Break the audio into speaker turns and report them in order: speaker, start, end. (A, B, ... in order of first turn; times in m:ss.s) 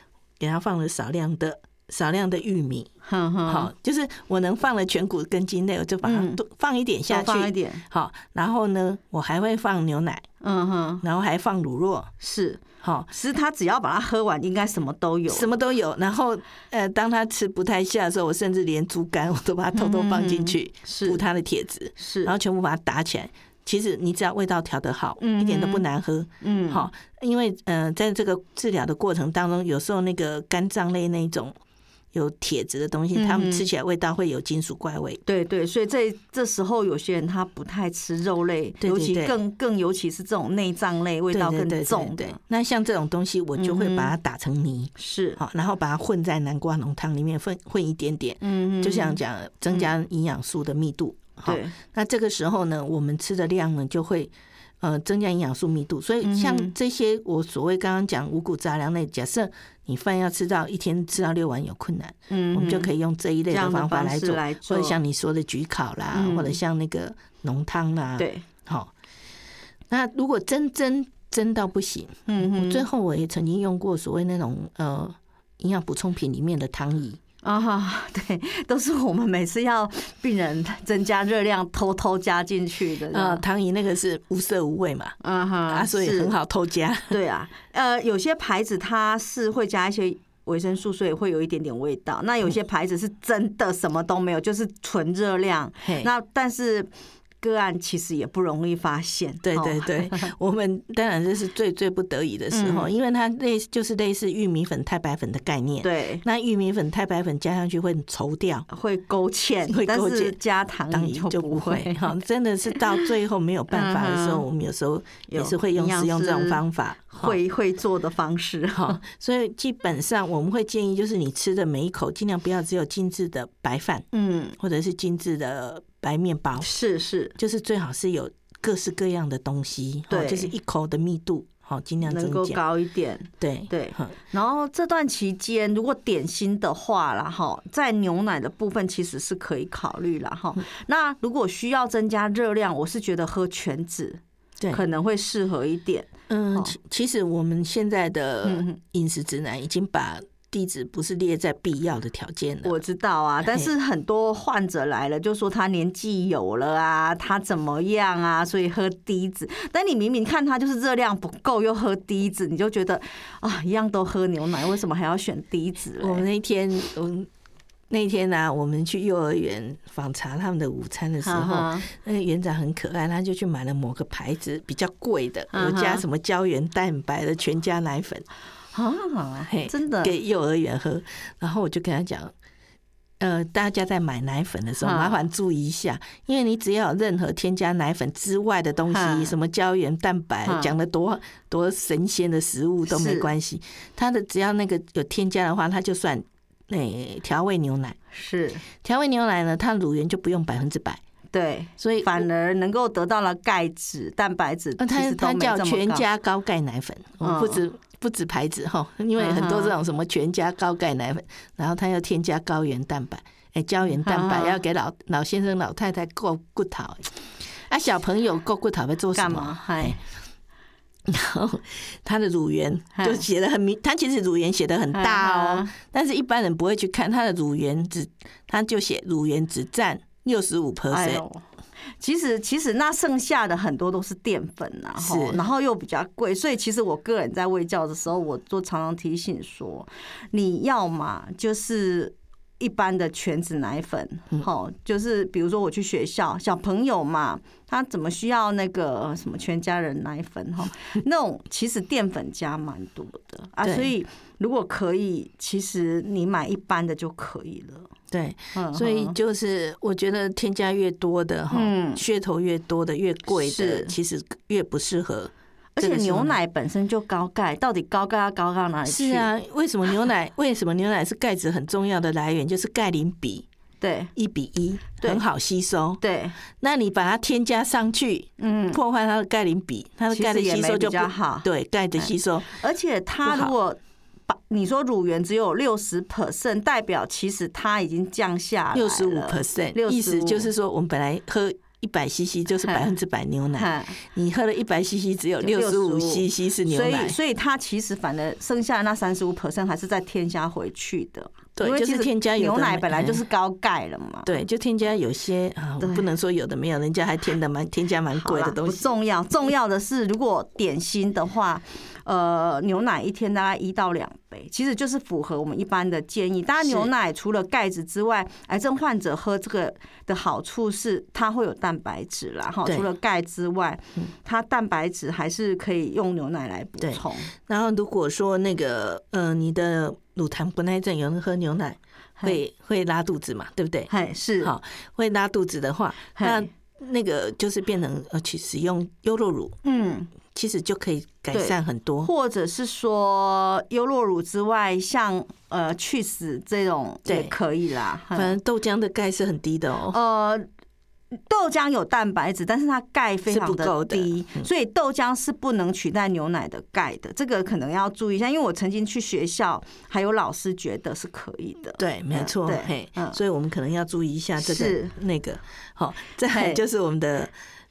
0:00.4-0:02.9 A
0:03.0-0:03.7 B
0:03.5-0:10.2 A
0:06.0-0:06.4 B
0:07.1-0:07.8 B
0:10.4-0:11.0 B
0:11.0-0:12.1 A
0:12.2-0:15.5 B
0:12.8-0:13.1 A
0:15.3-0:31.5 A
0:19.7-0:21.2 B
0:22.0-0:22.3 B
0:25.2-0:25.8 B
0:26.4-0:26.9 B
0:32.1-0:35.2 A
0:33.1-0:33.6 B
0:35.2-0:42.4 B
0:38.8-0:39.3 A
0:41.3-1:08.9 A
0:43.6-0:44.1 B
0:45.0-0:45.4 B
0:48.4-0:49.2 B
0:51.4-0:51.7 B
0:56.2-0:56.7 B
1:02.3-1:02.9 B
1:03.5-1:05.0 B
1:06.1-1:06.6 B
1:08.2-1:08.4 B
1:09.9-1:17.2 A
1:12.3-1:12.8 B
1:17.4-1:23.4 B
1:23.1-1:27.2 A
1:25.2-1:26.3 B
1:27.1-1:36.9 B
1:35.8-1:36.1 A
1:37.4-1:40.3 B
1:39.4-1:48.6 A
1:42.5-1:42.9 B
1:45.8-1:46.2 B
1:48.7-1:52.0 B
1:49.7-1:50.4 A
1:50.9-1:57.4 A
1:53.7-1:54.4 B
1:55.3-1:59.0 B
1:58.7-2:04.1 A
2:04.1-2:04.6 B
2:04.6-2:06.7 A
2:06.6-2:07.4 B
2:07.4-2:12.6 A
2:10.1-2:10.5 B
2:12.0-2:24.2 B
2:13.4-2:14.1 A
2:24.7-2:26.7 B
2:26.3-2:32.8 A
2:28.4-2:28.8 B
2:32.6-2:46.2 B
2:46.0-2:47.3 A
2:47.9-2:58.2 A
2:51.2-2:51.9 B
2:55.5-2:56.0 B
2:58.7-3:00.1 B
2:59.5-3:02.3 A
3:03.2-3:18.0 A
3:04.8-3:05.2 B
3:08.9-3:09.3 B
3:10.4-3:10.7 B
3:12.9-3:13.3 B
3:18.1-3:18.6 B
3:18.8-3:21.0 A
3:21.3-3:26.1 B
3:21.8-3:22.3 A
3:24.8-3:40.0 A
3:27.2-3:27.6 B
3:29.2-3:29.7 B
3:34.0-3:34.6 B
3:39.1-3:40.0 B
3:41.0-3:51.2 A
3:42.9-3:43.2 B
3:44.9-3:45.7 B
3:50.9-3:51.4 B
3:52.0-4:17.9 B
3:55.0-3:55.4 A
4:13.6-4:13.9 A
4:18.1-4:26.4 A
4:18.5-4:19.1 B
4:21.5-4:22.0 B
4:23.3-4:23.9 B
4:25.8-4:29.3 B
4:28.9-4:33.4 A
4:33.8-4:34.1 B
4:34.1-4:36.0 A
4:36.0-4:36.4 B
4:36.6-4:42.5 A
4:38.4-4:38.8 B
4:40.1-4:50.5 B
4:43.2-4:43.5 A
4:48.7-4:57.2 A
4:53.6-4:54.0 B
4:55.4-5:04.4 B
5:01.6-5:03.2 A
5:04.2-5:08.9 A
5:05.8-5:06.0 B
5:08.1-5:27.3 B
5:16.6-5:16.9 A
5:26.8-5:39.6 A
5:33.9-5:34.5 B
5:36.2-5:36.5 B
5:39.6-5:40.1 B
5:40.3-5:42.1 A
5:41.3-5:48.4 B
5:47.0-5:47.3 A
5:48.1-5:50.0 A
5:49.9-5:50.4 B
5:51.3-6:03.2 B
5:53.3-5:54.5 A
6:01.8-6:07.3 A
6:04.4-6:04.9 B
6:06.3-6:06.6 B